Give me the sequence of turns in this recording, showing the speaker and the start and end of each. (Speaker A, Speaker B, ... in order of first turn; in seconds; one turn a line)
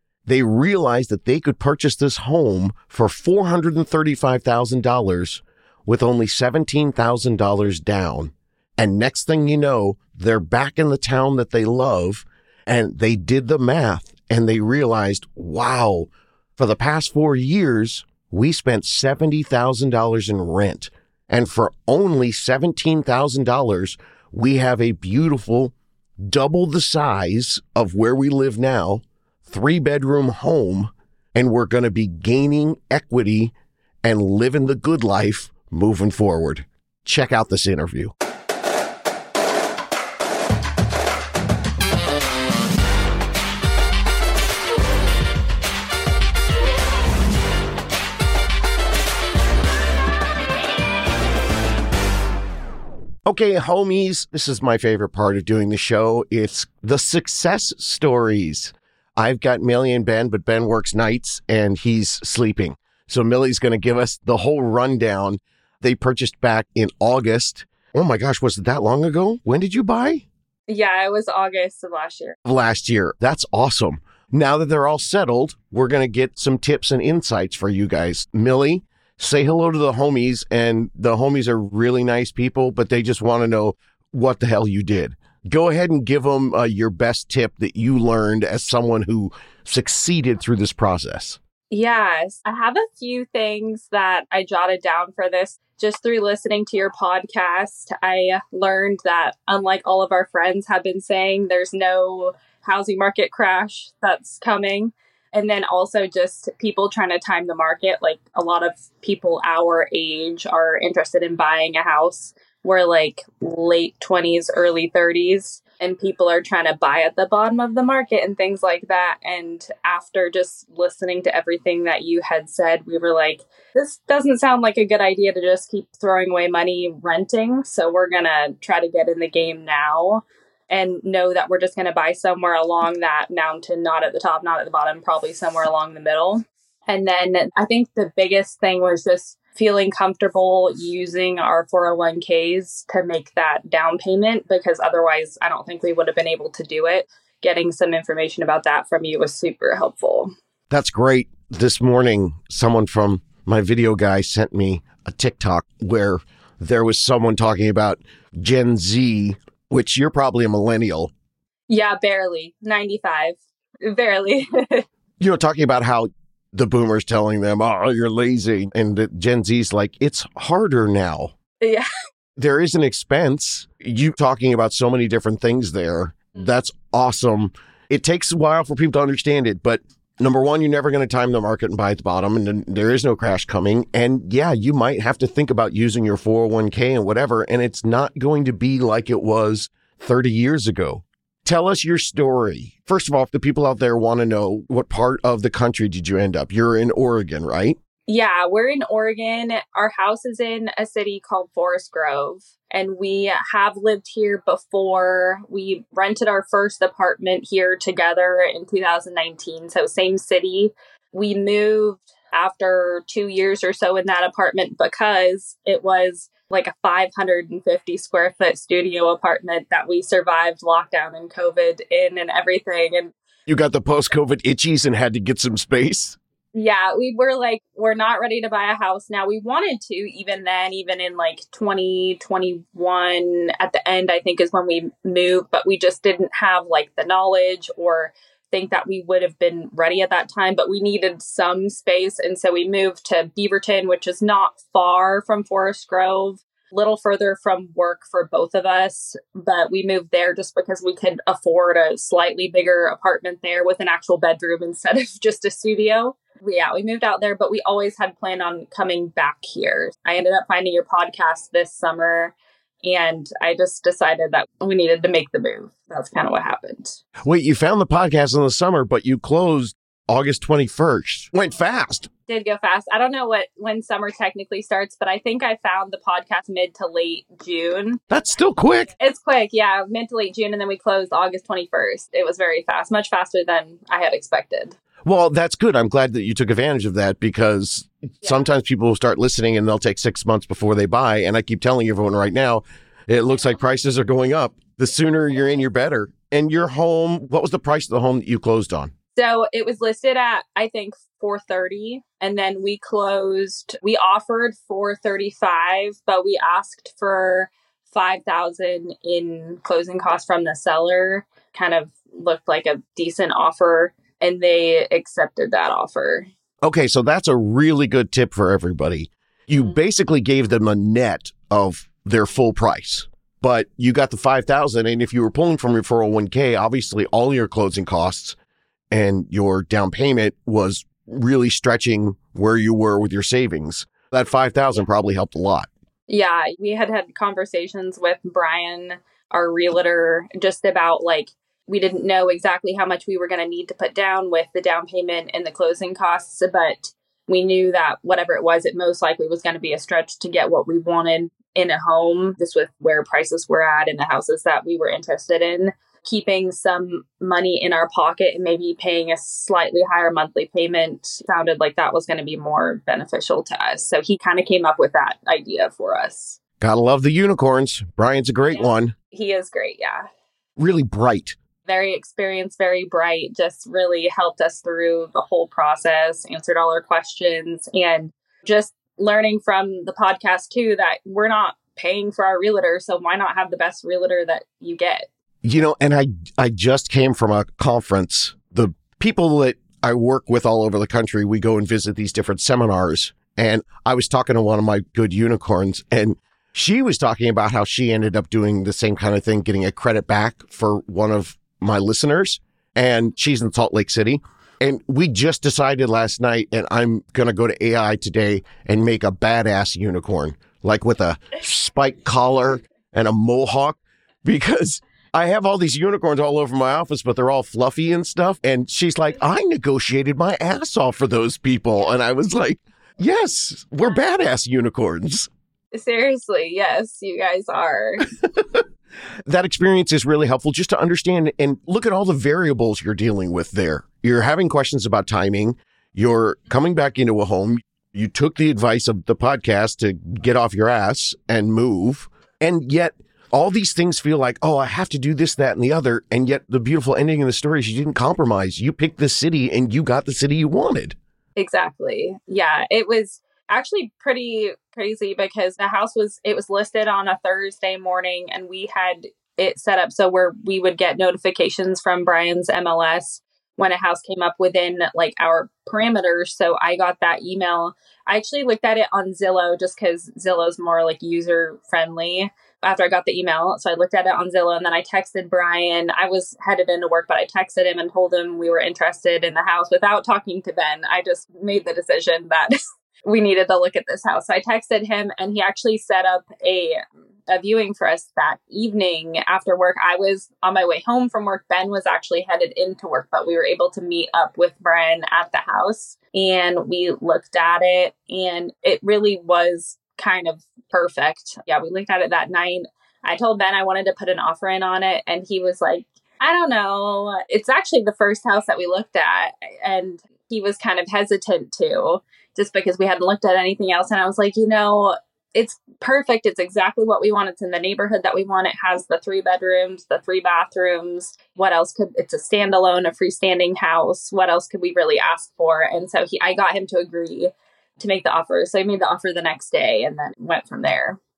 Speaker A: 0.2-38.1
Speaker A: 53.2-70.2
Speaker B: 70.7-72.4
Speaker A: 72.4-91.4
Speaker B: 91.7-150.3
Speaker A: 150.7-161.1
Speaker B: 161.7-164.8
Speaker A: 165.2-171.3
Speaker B: 171.6-171.9
Speaker A: 172.4-197.8
Speaker B: 198.1-223.1
Speaker A: 223.5-226.2
Speaker B: 226.5-267.0
Speaker A: 267.2-272.1
Speaker B: 272.3-278.0
Speaker A: 278.1-278.9
Speaker B: 279.0-284.8
Speaker A: 285.0-298.9
Speaker B: 299.1-316.3
Speaker A: 316.6-328.4
Speaker A: 328.9-335.7
Speaker B: 336.1-366.4
Speaker A: 366.6-368.9
Speaker B: 369.1-370.1
Speaker A: 370.6-371.4
Speaker B: 371.6-385.1
Speaker A: 385.4-425.3
Speaker B: 425.7-428.0
Speaker A: 429.3-451.0
Speaker B: 451.4-531.0